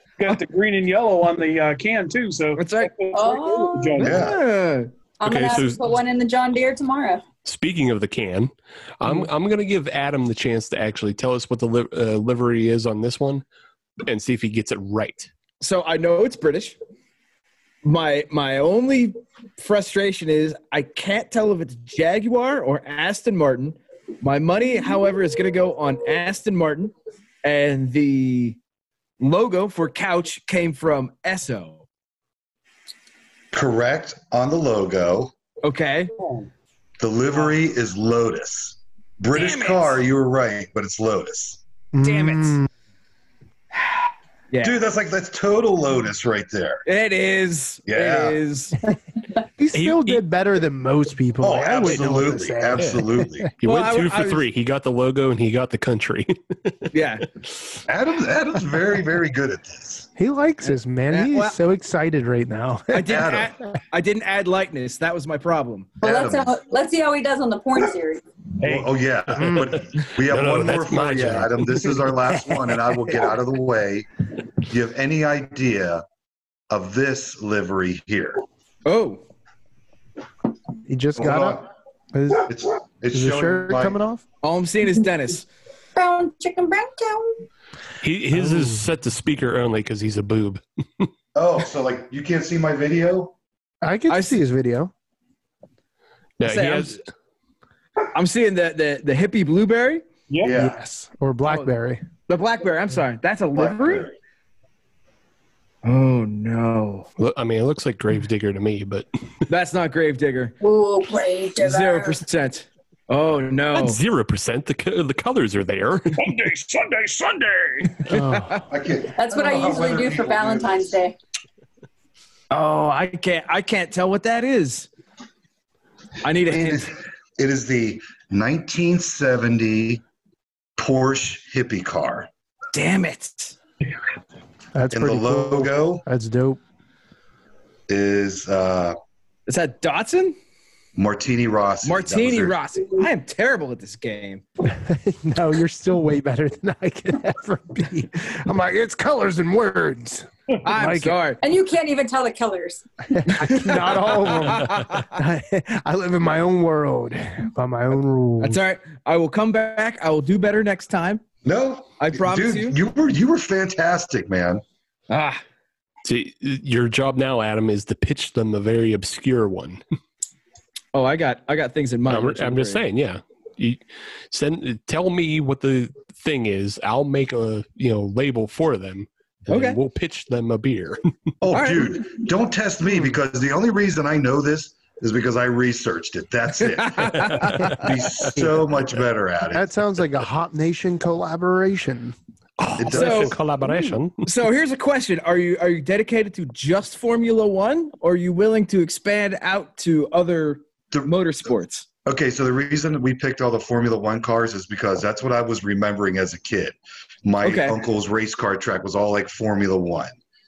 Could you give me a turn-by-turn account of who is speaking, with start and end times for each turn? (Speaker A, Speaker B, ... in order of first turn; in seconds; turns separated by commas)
Speaker A: 0.2-4.3, Speaker B: 2.5-2.9, Speaker C: 3.1-4.0, Speaker B: 4.0-4.9, Speaker D: 4.0-4.4, Speaker C: 5.2-7.2, Speaker E: 5.2-5.8, Speaker E: 7.4-13.4, Speaker E: 14.0-15.3, Speaker B: 15.6-16.8, Speaker B: 17.8-28.6, Speaker B: 29.2-31.8, Speaker D: 33.5-35.3, Speaker B: 35.6-36.1, Speaker A: 36.2-36.5, Speaker D: 37.0-41.6, Speaker B: 39.3-40.0, Speaker F: 41.9-42.7, Speaker B: 42.0-42.6, Speaker B: 43.7-44.8, Speaker D: 44.6-46.9, Speaker B: 46.9-48.8, Speaker D: 47.9-48.4, Speaker F: 49.6-53.5, Speaker E: 49.7-50.2, Speaker D: 51.4-53.5, Speaker E: 53.6-56.9, Speaker B: 53.6-54.4, Speaker B: 56.9-57.2, Speaker D: 57.9-60.1, Speaker F: 60.1-63.2, Speaker B: 61.1-61.6, Speaker B: 62.9-65.9, Speaker D: 63.1-63.5, Speaker D: 66.0-66.5, Speaker C: 66.0-68.2, Speaker D: 68.6-74.1, Speaker F: 69.4-69.7, Speaker E: 69.4-71.9, Speaker D: 74.6-76.0, Speaker D: 76.7-78.4, Speaker B: 78.8-79.2, Speaker F: 80.9-82.5, Speaker D: 81.2-81.7, Speaker D: 82.5-84.0, Speaker F: 83.1-84.2, Speaker B: 84.4-85.5, Speaker C: 85.9-87.4, Speaker E: 88.0-91.1, Speaker F: 88.4-88.7, Speaker D: 91.3-93.3, Speaker F: 93.8-94.9, Speaker B: 94.1-94.4, Speaker E: 96.4-97.0, Speaker B: 96.4-97.0, Speaker B: 98.0-100.0, Speaker A: 100.3-100.5, Speaker D: 100.4-100.8, Speaker F: 100.5-102.0, Speaker B: 102.3-104.1, Speaker D: 103.5-104.2, Speaker B: 105.8-107.1, Speaker E: 107.2-109.1, Speaker B: 109.5-110.5, Speaker C: 110.6-112.2, Speaker B: 111.6-114.0, Speaker E: 113.7-116.3, Speaker A: 116.2-118.0, Speaker F: 118.0-118.6, Speaker D: 118.7-121.0, Speaker C: 119.1-121.1, Speaker B: 122.5-124.9, Speaker B: 126.2-126.9, Speaker D: 126.5-130.0, Speaker D: 130.8-132.3, Speaker B: 132.7-133.6, Speaker F: 134.7-136.6, Speaker D: 134.9-136.0, Speaker D: 137.9-139.0, Speaker B: 139.5-140.3, Speaker D: 140.9-142.6, Speaker B: 141.8-144.4, Speaker F: 144.6-151.2, Speaker B: 150.6-151.4, Speaker C: 151.4-153.5, Speaker F: 153.3-158.6, Speaker B: 153.3-155.1, Speaker B: 158.4-161.2, Speaker D: 161.4-164.6, Speaker B: 162.0-162.8, Speaker B: 165.1-165.4, Speaker E: 166.0-169.8, Speaker B: 170.9-172.8, Speaker E: 172.1-181.1, Speaker B: 179.5-179.8, Speaker D: 181.4-189.7, Speaker B: 181.5-182.0, Speaker F: 182.8-183.1, Speaker B: 186.7-187.6, Speaker E: 187.2-187.5, Speaker F: 189.5-192.2, Speaker E: 192.6-194.2, Speaker D: 192.8-193.3, Speaker B: 192.9-193.3, Speaker B: 194.2-201.8, Speaker D: 202.1-210.1, Speaker B: 207.4-207.8